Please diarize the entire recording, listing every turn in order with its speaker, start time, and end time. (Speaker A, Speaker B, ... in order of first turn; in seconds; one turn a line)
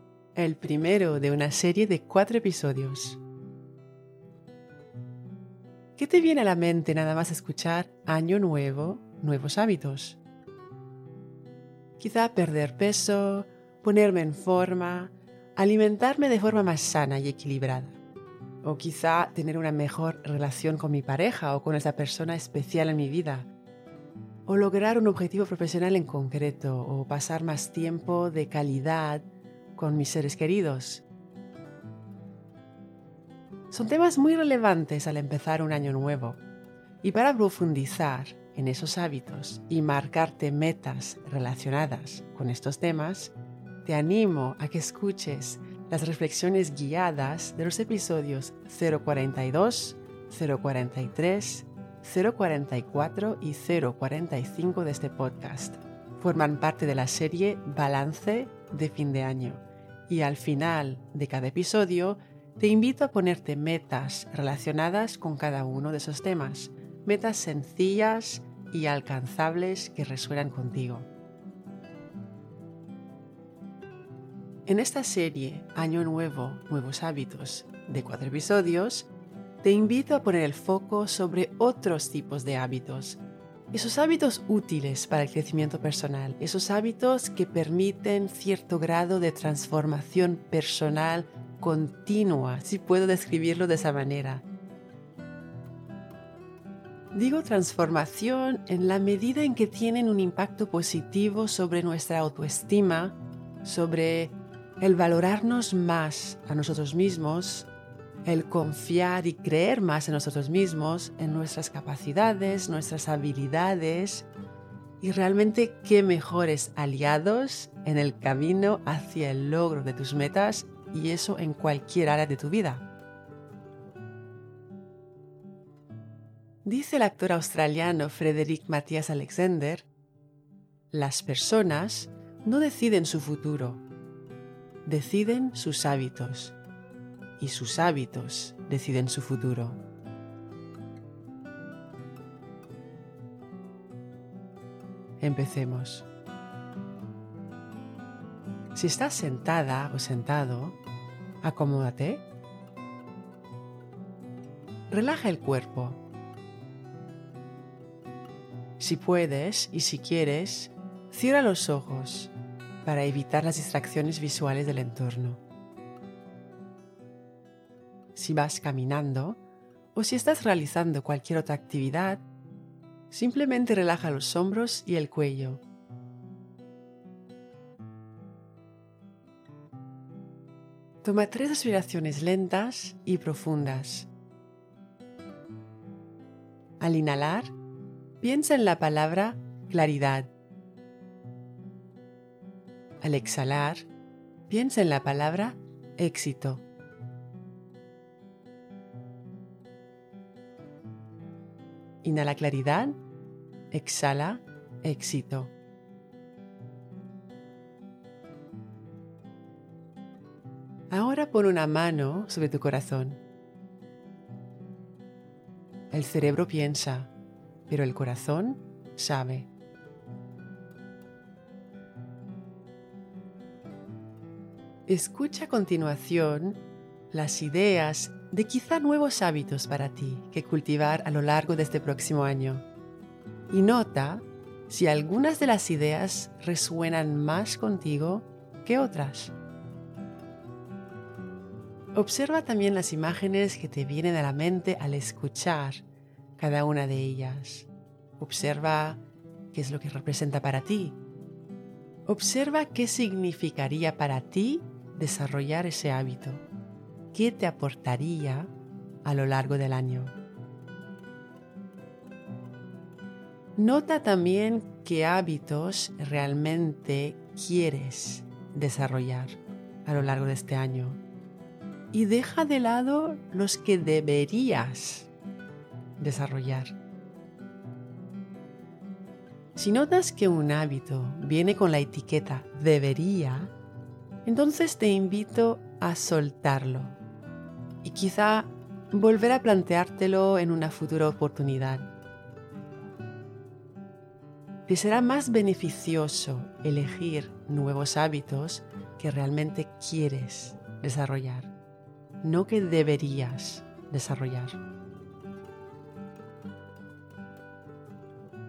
Speaker A: 0.3-3.2
Speaker A: 6.0-10.2
Speaker A: 12.0-18.0
Speaker A: 18.6-23.5
Speaker A: 24.5-31.0
Speaker A: 33.7-36.4
Speaker A: 37.0-71.1
Speaker A: 74.7-79.1
Speaker A: 79.6-94.5
Speaker A: 97.1-107.7
Speaker A: 108.2-114.3
Speaker A: 115.0-122.9
Speaker A: 126.6-129.9
Speaker A: 130.9-133.8
Speaker A: 134.8-136.6
Speaker A: 137.4-139.8
Speaker A: 145.2-146.1
Speaker A: 148.8-150.8
Speaker A: 151.4-152.3
Speaker A: 154.9-156.0
Speaker A: 158.8-162.3
Speaker A: 162.8-165.4
Speaker A: 168.2-169.4
Speaker A: 169.9-172.2
Speaker A: 173.1-175.6
Speaker A: 181.0-184.1
Speaker A: 186.8-187.5
Speaker A: 188.2-190.3
Speaker A: 193.0-193.9
Speaker A: 194.5-196.7
Speaker A: 202.0-203.0
Speaker A: 203.7-205.5
Speaker A: 210.9-213.2
Speaker A: 215.9-217.1
Speaker A: 217.7-219.5
Speaker A: 224.9-226.6
Speaker A: 227.1-232.7
Speaker A: 233.5-239.3
Speaker A: 241.9-245.8
Speaker A: 246.4-251.0
Speaker A: 252.1-256.4
Speaker A: 257.1-258.5
Speaker A: 259.0-260.2
Speaker A: 263.6-271.0
Speaker A: 271.9-275.1
Speaker A: 276.0-276.8
Speaker A: 279.6-283.5
Speaker A: 284.2-287.0
Speaker A: 287.8-291.9
Speaker A: 294.7-301.5
Speaker A: 302.2-304.6